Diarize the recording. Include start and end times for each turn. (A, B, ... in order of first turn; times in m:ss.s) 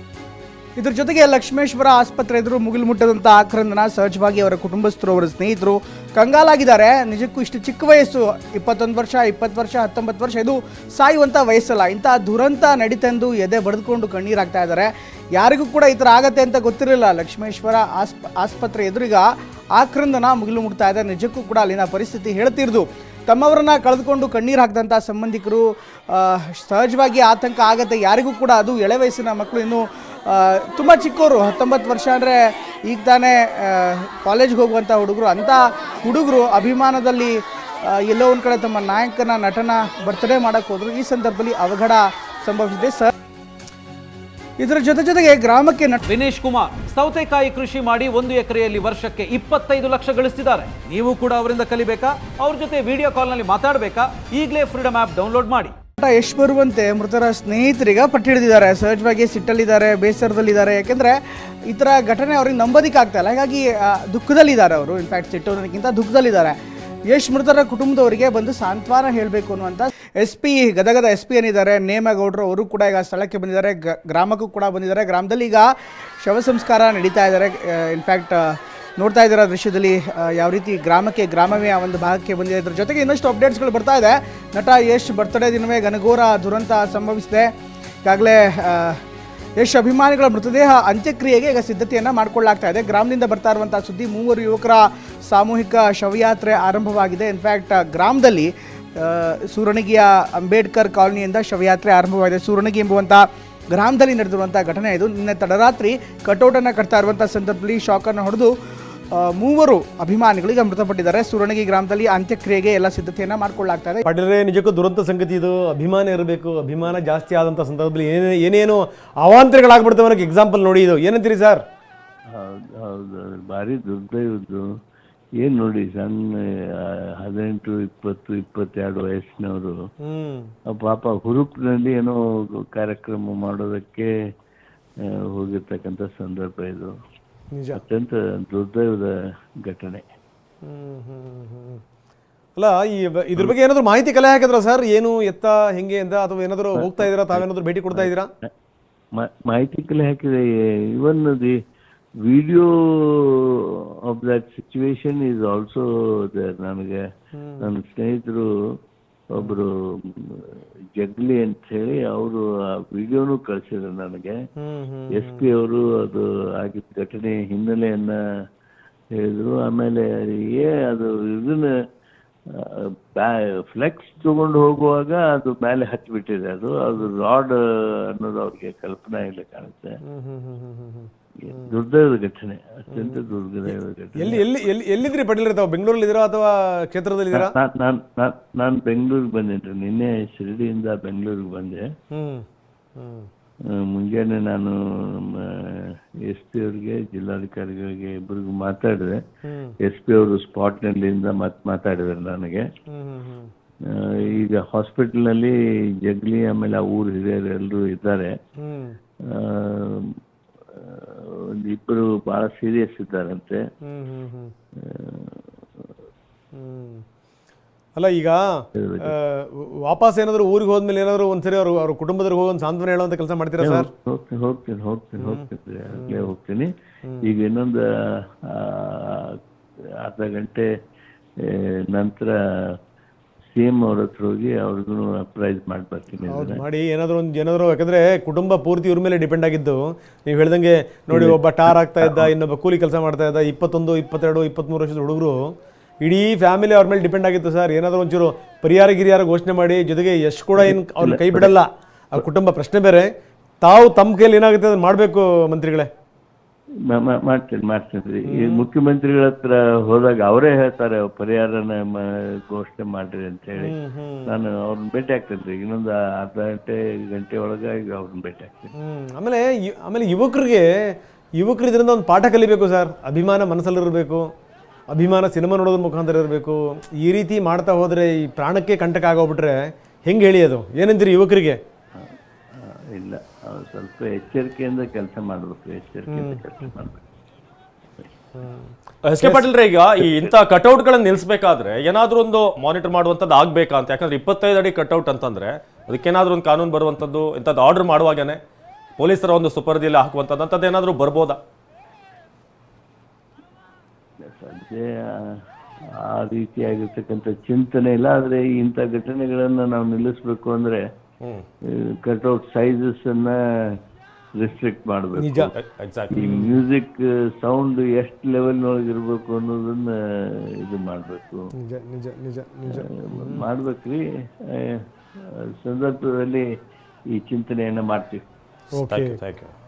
0:00.8-0:43.1 A
0:44.6-0:46.0 A
0:46.0-0:55.7 B
0:56.0-1:06.6 A
1:07.1-1:15.7 A
1:16.2-1:27.5 A
1:28.0-1:29.0 A
1:29.6-1:48.5 A
1:49.1-1:54.0 A
1:54.0-2:01.6 C
2:02.3-2:04.7 D
2:05.4-2:06.2 D
2:06.8-2:09.7 D
2:10.0-2:10.5 C
2:10.7-2:14.1 D
2:15.3-2:16.9 D
2:17.5-2:17.8 C
2:17.7-2:19.1 D
2:19.6-2:20.0 D
2:20.6-2:21.8 C
2:22.6-2:28.3 C
2:26.8-2:28.5 D
2:29.2-2:31.5 D
2:32.2-2:37.0 D
2:37.3-2:37.7 C
2:37.6-2:38.5 D
2:39.3-2:44.4 D
2:44.6-2:45.4 C
2:45.1-2:48.1 D
2:49.2-2:51.7 D
2:52.5-2:57.6 D
2:58.1-2:59.9 D
3:00.0-3:01.1 C
3:01.5-3:04.5 D
3:02.9-3:03.2 C
3:03.7-3:07.5 C
3:07.3-3:11.8 D
3:12.1-3:12.4 C
3:13.0-3:13.3 C
3:13.9-3:19.2 D
3:19.4-3:19.7 C
3:19.8-3:22.6 D
3:22.9-3:23.5 C
3:23.9-3:25.5 D
3:26.0-3:28.3 D
3:28.6-3:29.0 C
3:29.3-3:30.0 D
3:30.7-3:33.6 D
3:33.8-3:34.5 C
3:34.8-3:35.4 D
3:36.5-3:37.0 C
3:38.0-3:43.9 C
3:38.8-3:39.1 D
3:43.6-3:46.7 D
3:45.9-3:46.3 C
3:47.2-3:47.8 D
3:48.5-3:49.3 D
3:50.0-3:50.7 D
3:51.4-3:52.3 D
3:53.4-3:56.6 D
3:56.3-4:13.1 C
4:01.1-4:01.4 D
4:02.0-4:02.3 D
4:10.6-4:11.5 D
4:13.6-4:15.9 C
4:16.9-4:28.7 D
4:18.3-4:18.7 C
4:23.6-4:24.3 C
4:28.8-4:30.6 C
4:31.4-4:34.3 C
4:34.9-4:41.6 C
4:42.0-4:47.0 D
4:46.1-4:46.4 C
4:48.4-4:50.3 C
4:49.0-4:58.4 E
4:59.0-5:01.4 E
5:04.3-5:05.4 D
5:06.0-5:10.8 D
5:12.0-5:13.3 D
5:14.4-5:15.5 D
5:15.2-5:15.5 C
5:15.6-5:16.2 E
5:16.1-5:21.4 D
5:21.6-5:23.5 C
5:22.7-5:26.4 D
5:27.1-5:28.2 D
5:28.8-5:29.2 C
5:28.8-5:29.5 E